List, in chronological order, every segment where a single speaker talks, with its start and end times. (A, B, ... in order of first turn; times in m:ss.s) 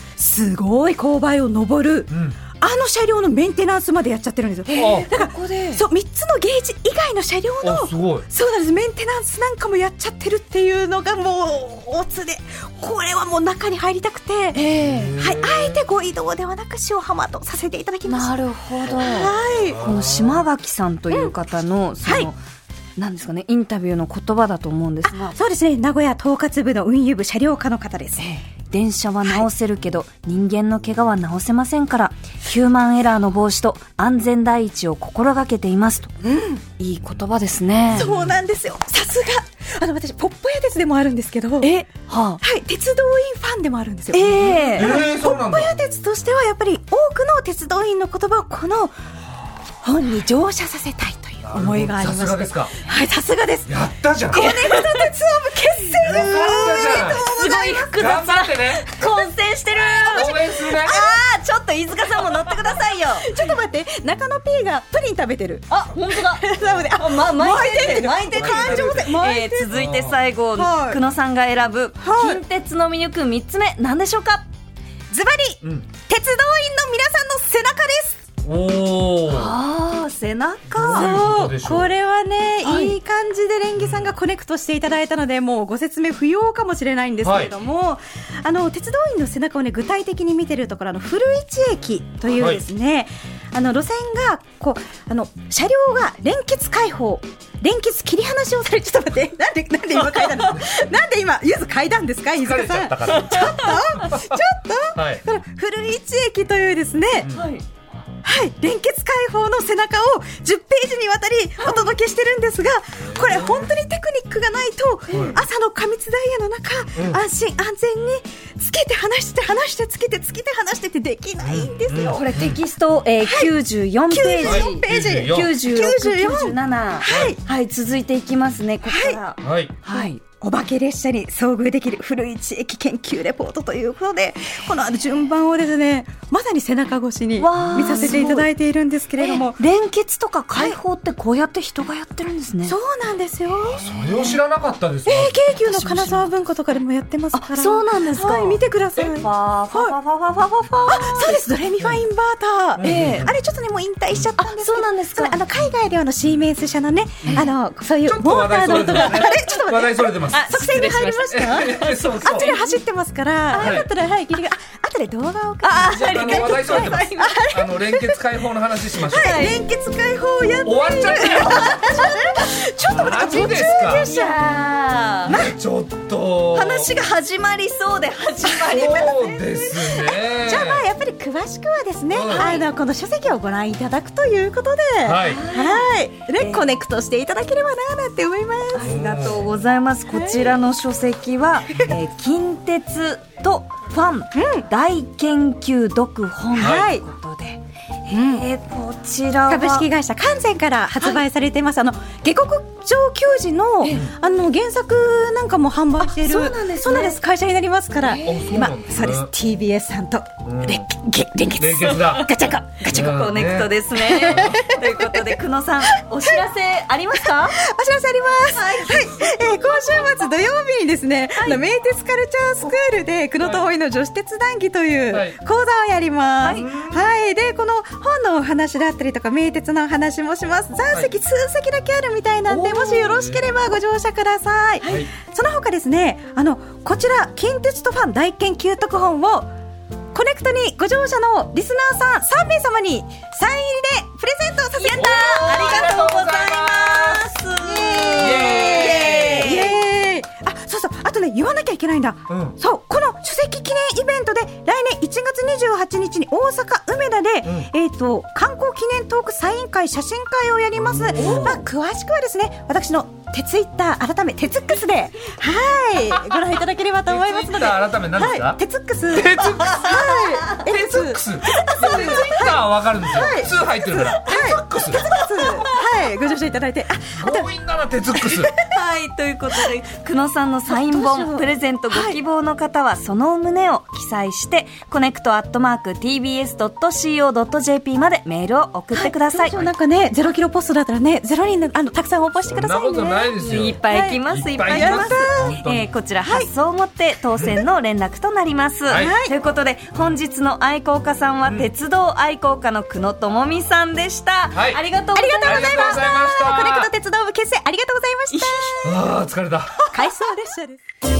0:00.2-0:14.6 A
0:02.1-0:02.4 B
0:04.6-0:05.8 C
0:04.8-0:05.1 B
0:07.6-0:08.2 B
0:14.5-0:15.1 C
0:14.8-0:15.8 B
0:15.2-0:18.4 A
0:18.0-0:22.4 C
0:18.9-0:19.8 A
0:19.6-0:20.4 B
0:22.0-0:22.3 A
0:23.0-0:25.3 C
0:25.0-0:28.3 A
0:28.2-0:36.1 C
0:36.2-0:36.6 A
0:36.8-0:38.1 C
0:37.9-0:41.7 A
0:38.0-0:38.3 B
0:41.6-0:42.4 C
0:42.4-0:48.9 A
0:44.1-0:45.0 C
0:44.7-0:45.8 B
0:49.8-0:53.7 A
0:51.4-0:52.7 B
0:53.6-0:54.5 B
0:54.3-0:58.1 A
0:54.3-0:55.1 C
0:56.0-0:57.3 B
0:56.1-1:03.4 C
0:57.9-0:58.9 B
0:59.0-0:59.2 A
0:59.9-1:01.2 A
1:00.1-1:01.0 B
1:03.2-1:09.8 A
1:05.7-1:14.4 C
1:08.2-1:09.1 B
1:09.7-1:10.2 B
1:10.5-1:11.0 A
1:12.0-1:12.4 A
1:15.1-1:18.2 A
1:15.6-1:15.9 B
1:18.4-1:19.6 B
1:19.3-1:21.3 C
1:20.7-1:21.9 B
1:20.9-1:47.3 A
1:22.6-1:23.0 C
1:23.8-1:24.1 B
1:27.2-1:27.5 B
1:32.3-1:32.6 B
1:42.3-1:44.4 B
1:43.1-1:43.8 C
1:44.9-1:45.2 B
1:47.2-1:47.5 B
1:47.3-1:47.6 C
1:48.2-2:02.3 A
1:53.0-1:53.7 B
1:55.1-1:55.4 B
1:57.0-1:57.2 B
2:01.4-2:02.6 B
2:02.0-2:10.2 C
2:03.2-2:03.5 A
2:04.1-2:07.4 A
2:04.4-2:05.6 B
2:07.1-2:07.4 B
2:08.8-2:09.2 A
2:09.4-2:09.7 B
2:09.8-2:19.6 A
2:17.4-2:18.5 C
2:19.2-2:22.8 C
2:22.6-2:23.9 A
2:23.7-2:25.4 B
2:24.0-2:24.4 C
2:25.0-2:30.0 A
2:25.6-2:26.3 C
2:27.3-2:31.4 C
2:30.8-2:48.2 A
2:32.8-2:33.4 B
2:32.8-2:33.3 C
2:34.4-2:35.4 C
2:38.0-2:40.6 B
2:38.6-2:39.5 C
2:40.3-2:42.8 C
2:41.3-2:42.5 B
2:43.6-2:43.9 B
2:45.6-2:47.5 C
2:45.8-2:49.4 B
2:49.0-2:54.4 A
2:49.1-2:49.6 C
2:50.6-2:51.8 B
2:51.4-2:52.6 C
2:52.8-2:54.1 B
2:54.0-2:55.5 C
2:55.3-2:57.0 B
2:56.5-2:59.8 C
2:58.6-3:00.8 B
3:00.3-3:09.2 A
3:02.1-3:02.6 B
3:02.3-3:02.6 C
3:05.0-3:05.4 B
3:05.2-3:06.7 C
3:08.7-3:19.9 C
3:08.8-3:09.4 B
3:10.1-3:10.5 A
3:14.3-3:14.7 A
3:16.5-3:17.0 A
3:16.6-3:16.8 B
3:18.1-3:18.4 A
3:19.5-3:33.2 A
3:26.0-3:27.2 C
3:28.0-3:28.5 C
3:28.2-3:29.3 B
3:30.4-3:30.9 B
3:31.5-3:32.4 B
3:32.9-3:34.6 B
3:32.9-3:37.6 C
3:34.0-3:35.4 A
3:37.2-3:59.5 A
3:38.5-3:40.0 C
3:43.4-3:43.6 B
3:45.1-3:45.4 B
3:46.4-3:46.7 C
3:46.5-3:47.0 B
3:52.5-3:53.4 B
3:54.8-3:55.1 B
4:00.1-4:06.1 A
4:04.7-4:09.8 C
4:05.0-4:07.3 B
4:07.6-4:33.5 A
4:08.2-4:09.5 B
4:12.3-4:12.6 B
4:17.4-4:17.7 B
4:20.8-4:21.7 B
4:21.2-4:21.4 C
4:27.1-4:28.6 B
4:29.1-4:29.9 B
4:29.6-4:30.6 C
4:30.6-4:35.1 B
4:31.8-4:32.4 C
4:33.9-4:34.2 C
4:34.1-4:37.5 A
4:35.1-4:35.8 C
4:37.1-4:38.5 B
4:38.2-4:38.7 A
4:38.6-4:49.6 C
4:40.7-4:42.2 A
4:48.9-4:53.4 A
4:52.4-4:55.9 B
4:53.4-5:05.8 C
4:53.9-4:55.6 A
4:58.9-4:59.1 B
4:58.9-4:59.3 A
5:04.5-5:04.8 B
5:05.1-5:09.0 A
5:05.4-5:06.9 B
5:08.3-5:08.7 C
5:08.8-5:09.8 B
5:09.9-5:10.8 A